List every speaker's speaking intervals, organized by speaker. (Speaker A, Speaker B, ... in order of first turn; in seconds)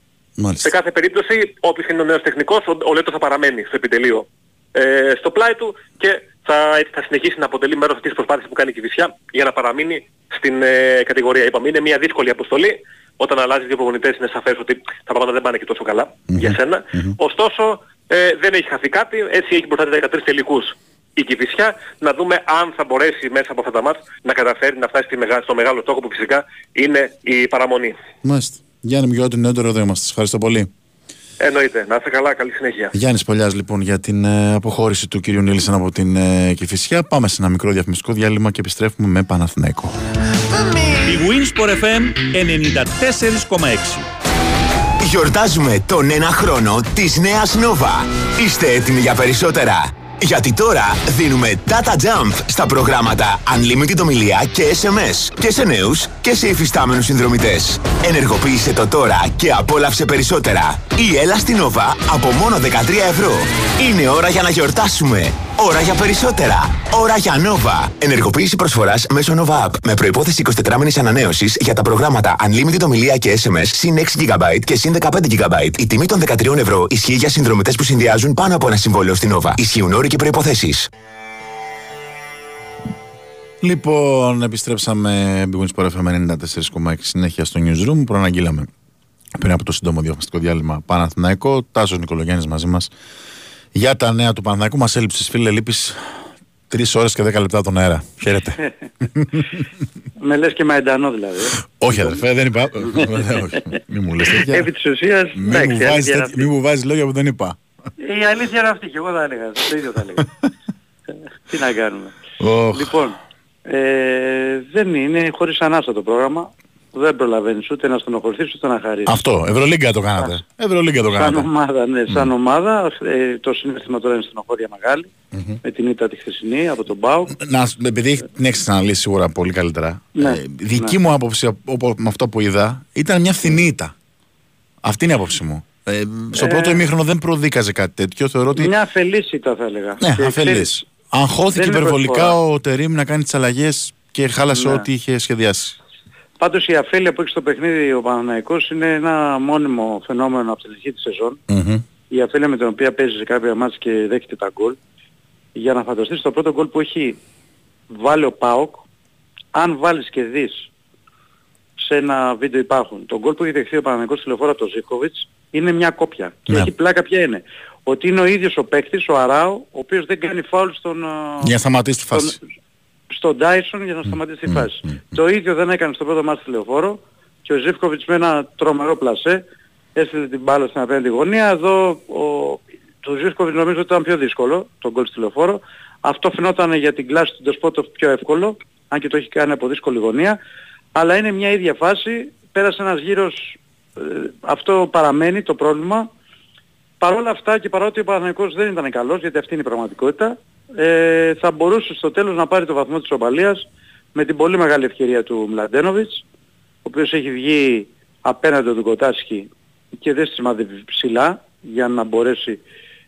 Speaker A: 0.4-0.7, 16.3-17.2, 28.2-30.7, 32.9-40.0, 83.6-88.7, 89.4-92.9, 93.8-98.6, 101.8-104.7, 105.4-107.6, 112.4-112.9, 119.1-121.5, 125.3-125.6, 127.3-133.9, 134.8-138.7, 140.0-145.8, 151.5-151.8, 171.4-172.4
Speaker B: 0.6-28.0, 31.4-32.9
Speaker C: 41.0-44.1
Speaker D: 45.0-80.9
Speaker E: 100.2-102.2, 102.8-103.6, 104.3-106.5, 108.0-110.3, 111.5-112.1, 112.7-119.2, 121.1-125.1, 125.6-127.3, 130.2-130.9, 136.3-136.8, 138.6-140.8, 141.5-142.4, 144.5-144.9, 146.4-151.4, 152.1-154.8, 155.6-157.2, 157.9-158.8, 159.5-160.7, 161.8-171.6, 172.1-172.4, 173.1-179.4, 179.9-190.4, 191.0-196.1, 197.0-206.2, 206.8-212.6